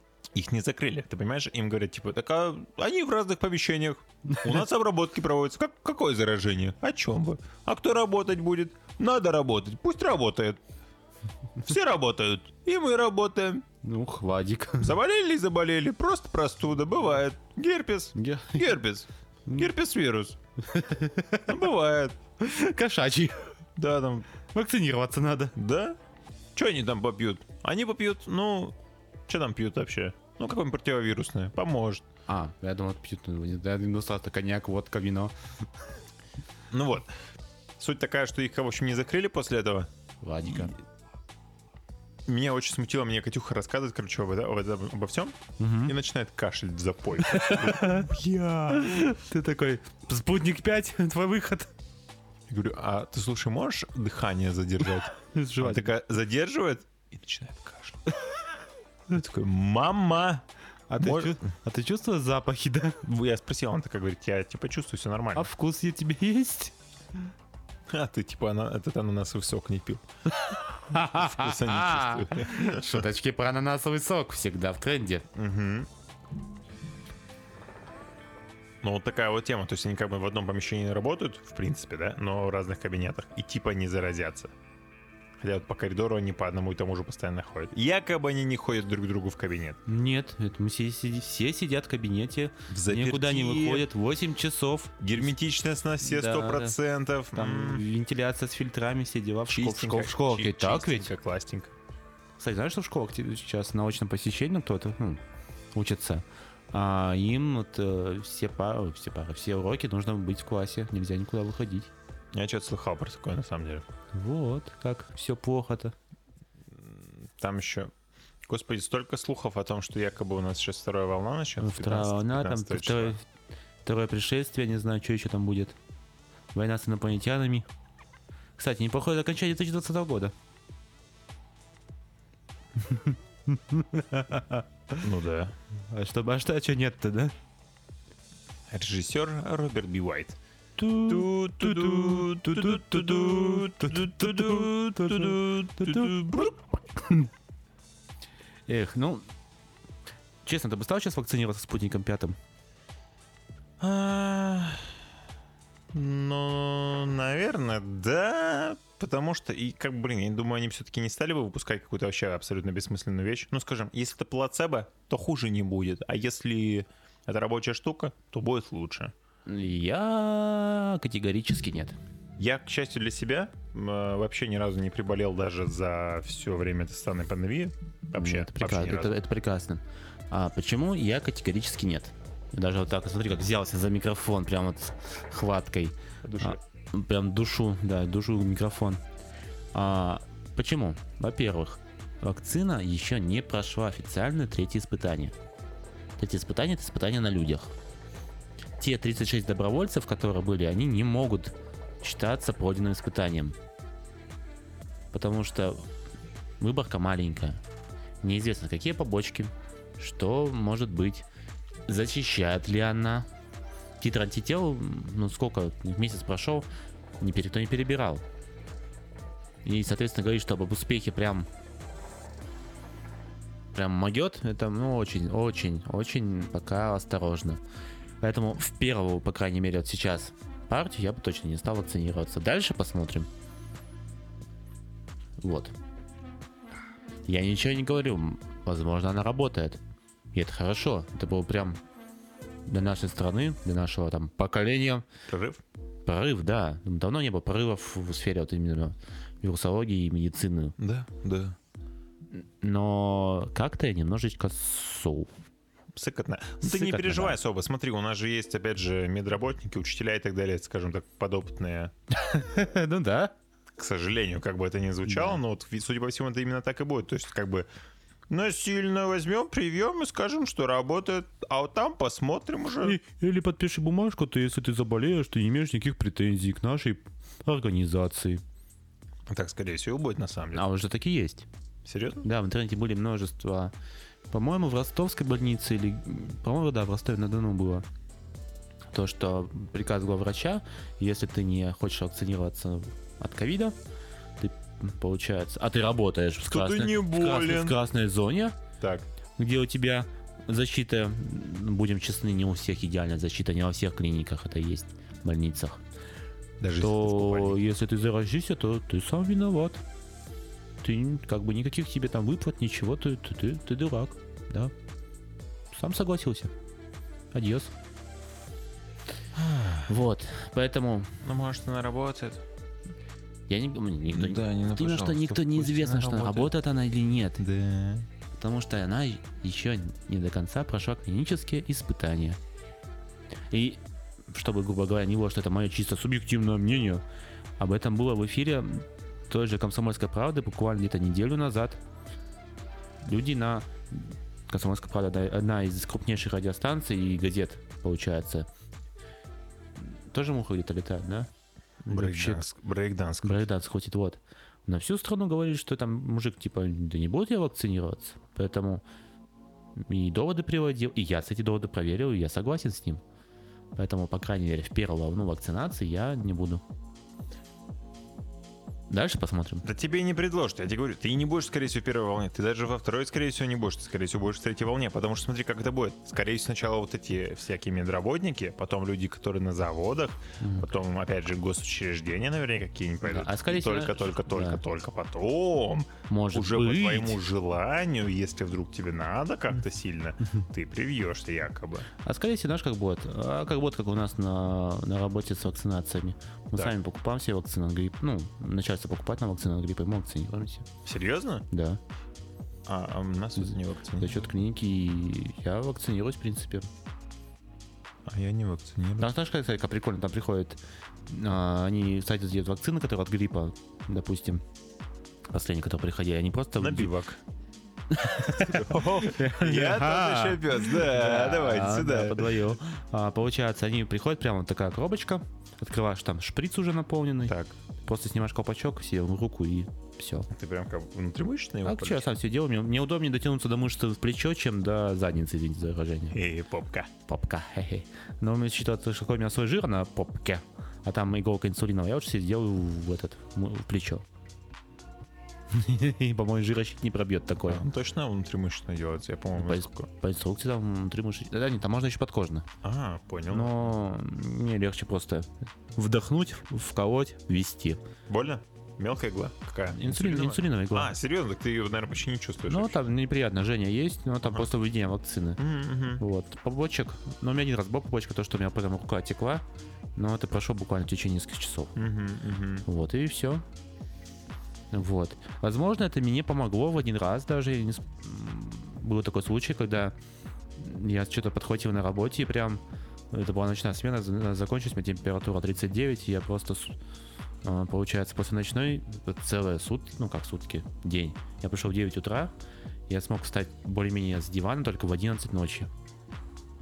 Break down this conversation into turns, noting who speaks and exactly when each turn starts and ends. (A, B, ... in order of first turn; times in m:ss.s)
0:00.3-0:10.6 A
0:04.3-0:04.6 B
0:11.6-0:13.6 A
0:13.8-0:15.0 B
0:14.8-0:20.4 A
0:18.2-0:18.8 B
0:20.6-0:21.6 B
0:21.4-0:22.2 A
0:22.4-0:23.5 B
0:23.8-0:24.3 A
0:24.5-0:25.5 B
0:25.6-0:26.0 A
0:26.6-0:28.7 A
0:29.3-0:32.0 A
0:32.3-0:35.3 B
0:36.7-0:37.1 A
0:37.8-0:39.9 A
0:40.2-0:40.7 B
0:40.5-0:40.7 A
0:42.3-0:49.0 A
0:45.6-0:45.9 B
0:47.2-0:48.1 B
0:48.7-0:51.7 B
0:52.5-0:58.1 A
0:55.1-0:55.9 B
0:59.1-1:00.4 A
1:00.9-1:03.0 B
1:01.0-1:01.5 A
1:03.0-1:05.5 A
1:05.3-1:06.7 B
1:07.9-1:10.0 A
1:10.3-1:15.3 B
1:10.9-1:13.0 A
1:15.3-1:15.9 A
1:18.8-1:24.5 A
1:25.4-1:29.8 A
1:29.8-1:35.0 B
1:32.7-1:33.8 A
1:35.0-1:37.8 A
1:36.0-1:36.8 B
1:37.3-1:41.1 B
1:39.5-1:41.7 A
1:42.4-1:45.2 B
1:45.7-1:51.9 B
1:52.3-1:53.8 A
1:54.1-1:55.9 B
1:56.8-1:57.9 A
1:58.4-2:03.2 A
2:01.6-2:03.2 B
2:03.8-2:05.8 B
2:06.5-2:07.7 B
2:08.6-2:10.3 B
2:12.8-2:15.0 B
2:15.0-2:15.5 A
2:15.9-2:17.3 B
2:18.7-2:20.4 A
2:20.8-2:27.3 B
2:20.9-2:26.5 A
2:28.7-2:29.2 B
2:30.4-2:32.4 B
2:33.8-2:34.9 A
2:35.9-2:49.1 A
2:49.4-2:52.0 B
2:52.4-2:59.2 A
2:58.1-3:09.0 B
3:06.2-3:06.6 A
3:09.7-3:15.3 B
3:16.2-3:17.7 B
3:18.8-3:23.6 B
3:25.1-3:25.9 B
3:26.6-3:27.6 B
3:28.2-3:31.3 B
3:31.9-3:33.3 B
3:34.0-3:36.7 B
3:37.2-3:38.2 B
3:39.6-3:41.5 B
3:43.7-3:47.6 B
3:48.2-3:53.3 B
3:55.4-3:55.7 B
3:57.2-3:59.8 B
4:00.3-4:01.8 B
4:02.7-4:05.0 B
4:05.3-4:05.6 A
4:06.0-4:10.8 B
4:10.8-4:11.6 A
4:12.3-4:15.3 B
4:16.0-4:21.9 A
4:16.6-4:17.4 B
4:22.1-4:23.3 B
4:23.8-4:27.6 A
4:25.0-4:25.4 B
4:28.3-4:33.0 A
4:32.8-4:38.4 B
4:39.3-4:40.6 A
4:40.5-4:41.5 B
4:41.8-4:42.3 A
4:42.2-4:43.7 B
4:44.3-4:47.8 B
4:48.9-4:53.7 B
4:54.4-4:58.6 B
4:56.5-4:57.8 A
4:58.8-4:59.1 A
4:59.4-5:05.8 B
5:06.6-5:07.6 A
5:06.8-5:09.8 B
5:10.8-5:14.7 B
5:15.7-5:16.5 B
5:17.3-5:17.7 B
5:19.3-5:20.0 A
5:19.9-5:21.2 B
5:21.2-5:22.4 A
5:23.5-5:27.4 B
5:24.1-5:26.5 A
5:27.4-5:28.1 A
5:28.3-5:32.4 B
5:33.5-5:37.0 B
5:37.6-5:41.8 B
5:43.0-5:48.5 B
5:49.8-5:51.3 B
5:51.8-5:52.4 B
5:51.9-5:53.4 A
5:53.2-5:58.8 B
5:59.8-6:03.0 B
6:03.8-6:06.6 B
6:08.9-6:09.6 B
6:09.6-6:31.9 A
6:20.4-6:20.6 B
6:23.0-6:24.6 B
6:26.1-6:27.2 B
6:32.0-6:40.6 B
6:40.8-6:41.4 A
6:41.5-6:41.8 B
6:42.7-6:44.3 A
6:44.0-6:46.7 B
6:48.1-6:49.1 A
6:49.0-6:54.4 B
6:55.3-6:56.9 B
6:56.6-6:57.2 A
6:57.9-7:10.3 B
6:58.2-7:02.5 A
7:07.2-7:07.5 A
7:10.3-7:12.1 A
7:11.6-7:16.2 B
7:16.1-7:16.9 A
7:17.1-7:24.0 B
7:25.5-7:27.6 B
7:27.4-7:29.9 A
7:29.4-7:32.5 B
7:32.6-7:33.6 A
7:33.3-7:37.8 B
7:38.1-7:42.9 A
7:39.7-7:40.9 B
7:42.5-7:45.4 B
7:45.4-7:46.0 A
7:46.0-7:49.4 B
7:50.0-7:51.7 B
7:51.8-7:52.7 A
7:52.6-7:53.4 B
7:54.7-7:59.9 B
8:00.6-8:06.8 B
8:07.4-8:12.3 B
8:12.9-8:15.7 B